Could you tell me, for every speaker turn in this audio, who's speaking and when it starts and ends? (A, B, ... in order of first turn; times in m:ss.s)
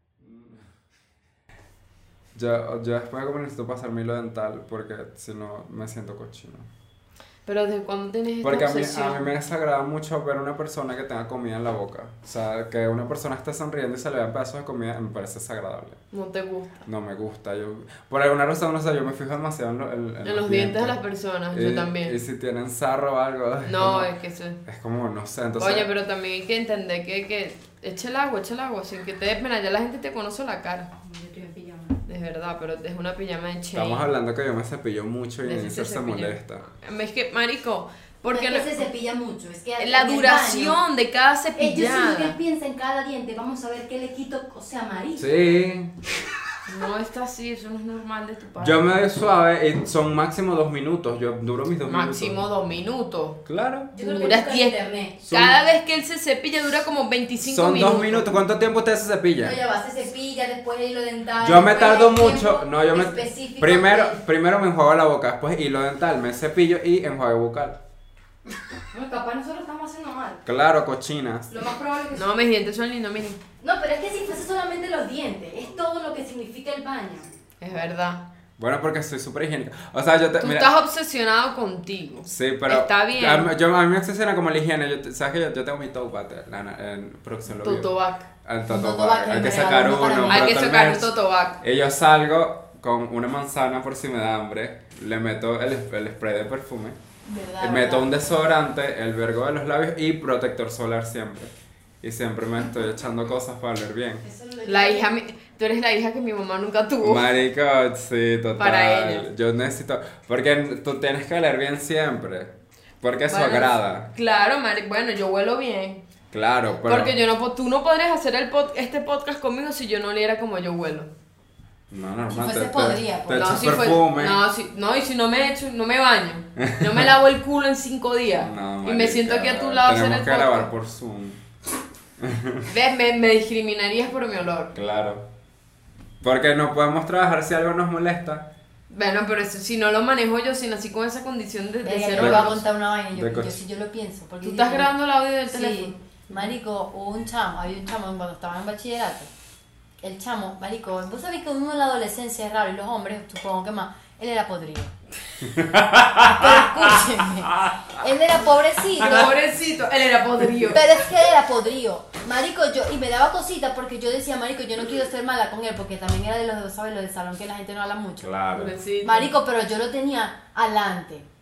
0:00.2-0:00.6 A
0:02.4-0:06.7 A
0:07.5-0:09.3 B
0:08.4-0:16.0 A
0:16.1-0:16.8 B
0:16.9-0:21.0 A
0:20.2-0:22.2 B
0:21.5-0:24.1 A
0:23.6-0:24.6 B
0:24.6-0:25.9 A
0:25.6-0:30.9 B
0:31.0-0:32.0 C
0:32.1-0:34.1 B
0:33.7-0:36.7 A
0:35.4-0:38.8 B
0:38.3-0:40.8 C
0:39.8-0:42.4 B
0:41.6-0:45.3 C
0:45.2-0:45.9 A
0:46.7-0:48.8 B
0:48.6-0:52.5 A
0:51.9-0:53.4 B
0:53.5-0:53.9 A
0:53.9-0:55.2 C
0:54.0-0:58.4 B
0:55.2-0:55.6 A
0:57.4-0:59.6 A
0:59.4-1:04.2 C
1:01.4-1:07.8 A
1:08.9-1:10.4 C
1:10.4-1:11.5 A
1:11.5-1:12.2 C
1:12.2-1:13.4 B
1:13.6-1:17.3 C
1:17.6-1:18.2 B
1:18.6-1:20.7 A
1:20.4-1:23.5 B
1:22.3-1:27.9 A
1:27.6-1:28.3 B
1:28.4-1:37.0 A
1:28.7-1:30.6 C
1:30.3-1:31.6 B
1:37.3-1:38.1 C
1:37.6-1:44.2 A
1:44.2-1:45.1 C
1:44.6-1:47.4 B
1:47.0-1:54.1 A
1:48.6-1:49.3 B
1:53.3-1:56.0 B
1:56.3-1:57.2 A
1:56.9-2:01.1 B
2:01.9-2:04.4 A
2:02.3-2:03.5 C
2:03.4-2:10.7 B
2:06.6-2:07.1 A
2:08.4-2:11.4 A
2:12.2-2:12.7 A
2:12.7-2:14.7 B
2:14.7-2:15.3 A
2:16.2-2:18.5 A
2:18.9-2:22.6 B
2:21.8-2:24.9 C
2:22.2-2:22.5 A
2:23.1-2:23.6 A
2:24.4-2:26.5 B
2:25.5-2:29.3 C
2:30.0-2:34.9 C
2:35.4-2:37.8 A
2:36.2-2:39.3 C
2:39.0-2:40.8 B
2:39.0-2:39.3 A
2:40.7-2:48.3 C
2:48.2-2:48.8 A
2:48.5-2:49.3 B
2:49.0-2:51.3 C